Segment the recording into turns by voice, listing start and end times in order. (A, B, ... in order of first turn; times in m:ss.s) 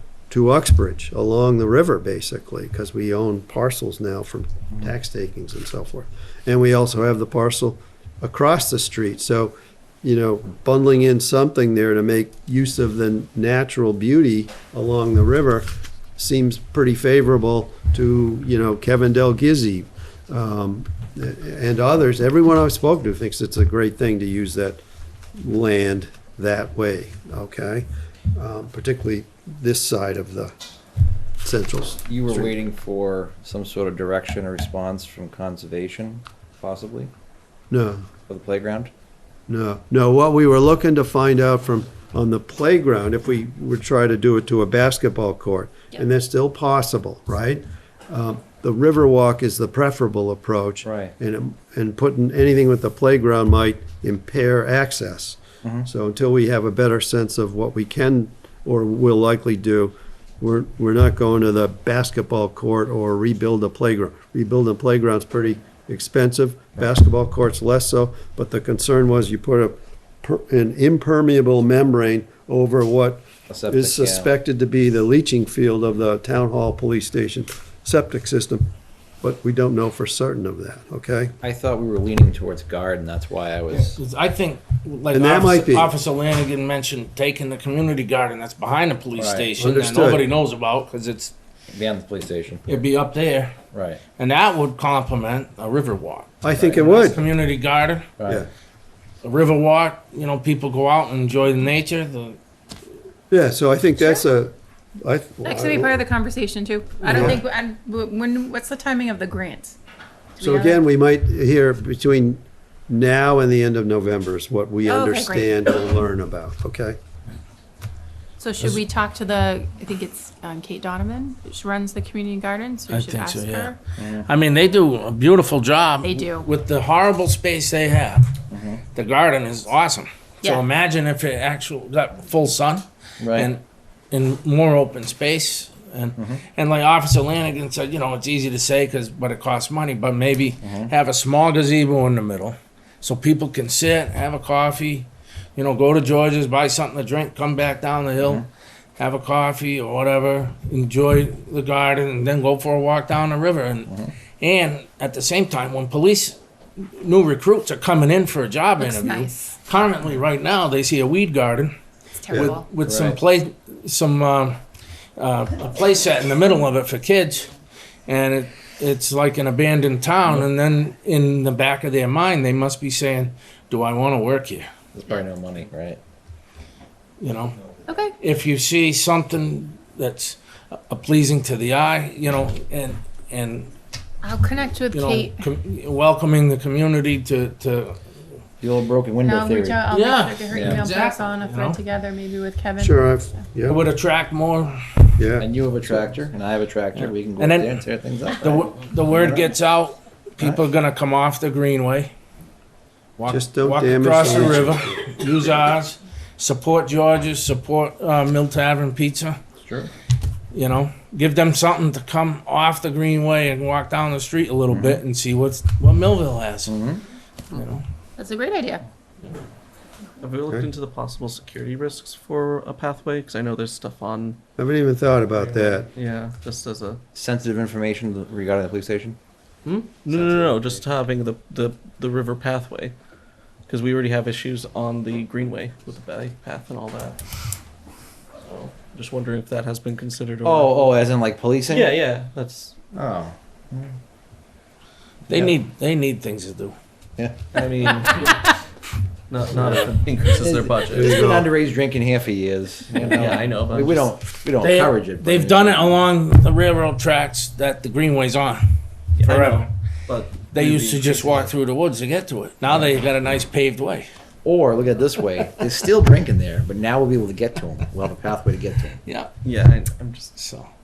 0:00.3-0:24.8 A
0:25.4-0:30.5 A
0:31.4-0:32.6 A
0:32.1-0:37.1 B
0:37.7-0:38.1 A
0:38.3-0:38.9 B
0:39.5-1:18.7 A
0:50.8-0:51.1 B
0:55.6-0:55.9 B
1:13.5-1:14.3 B
1:19.2-1:21.3 A
1:21.4-1:24.0 B
1:23.7-1:31.3 C
1:25.1-1:25.9 A
1:29.2-1:29.5 B
1:29.6-1:30.3 A
1:31.7-1:32.6 B
1:32.7-1:33.6 C
1:33.7-1:34.0 B
1:34.2-1:38.1 C
1:36.4-1:37.2 A
1:38.2-1:38.5 B
1:39.2-1:42.4 C
1:43.3-1:46.0 A
1:45.4-1:49.8 D
1:47.0-1:47.4 A
1:50.4-1:50.8 D
1:50.4-1:57.0 A
1:54.8-1:55.6 D
1:58.4-2:03.8 D
2:02.9-2:08.3 C
2:04.0-2:04.3 B
2:06.0-2:06.5 D
2:08.5-2:08.8 B
2:08.9-2:28.5 C
2:13.2-2:13.5 B
2:16.2-2:16.4 B
2:20.6-2:20.9 B
2:28.2-2:28.5 B
2:29.0-2:41.7 C
2:33.9-2:34.1 B
2:38.8-2:39.6 D
2:42.2-2:42.6 D
2:42.3-2:44.6 C
2:42.8-2:43.2 B
2:45.2-2:47.5 C
2:48.1-2:54.7 C
2:54.9-2:56.0 B
2:57.2-2:57.6 C
2:57.9-2:58.2 D
2:58.2-3:03.7 C
3:04.2-3:05.4 D
3:04.9-3:08.0 C
3:08.6-3:09.8 B
3:09.2-3:13.4 D
3:09.9-3:11.8 C
3:10.5-3:10.9 B
3:12.8-3:13.8 A
3:13.7-3:14.8 C
3:15.2-3:15.5 A
3:15.4-3:18.7 B
3:17.0-3:17.8 C
3:18.4-3:22.1 C
3:19.2-3:19.4 A
3:23.2-3:29.4 C
3:23.3-3:25.1 A
3:29.6-3:29.9 B
3:30.5-3:36.7 C
3:34.7-3:35.0 B
3:36.7-3:37.0 B
3:37.5-3:37.8 C
3:38.2-3:38.9 D
3:40.2-3:44.4 E
3:44.6-3:45.9 A
3:45.3-3:47.0 E
3:47.2-3:49.2 B
3:49.6-3:53.0 E
3:50.1-3:50.8 B
3:53.7-3:57.2 E
3:58.4-4:00.9 E
4:00.4-4:02.0 B
4:01.7-4:02.8 E
4:02.9-4:03.9 B
4:05.3-4:05.6 B
4:05.3-4:06.8 C
4:07.2-4:08.0 B
4:07.5-4:08.4 E
4:09.3-4:11.2 E
4:09.6-4:09.9 A
4:10.4-4:16.0 B
4:10.9-4:11.5 A
4:13.0-4:14.1 E
4:14.6-4:18.6 C
4:19.2-4:21.5 E
4:19.2-4:19.7 C
4:20.5-4:24.1 C
4:24.4-4:29.0 B
4:29.1-4:29.3 C
4:29.4-4:30.4 E
4:30.4-4:30.7 C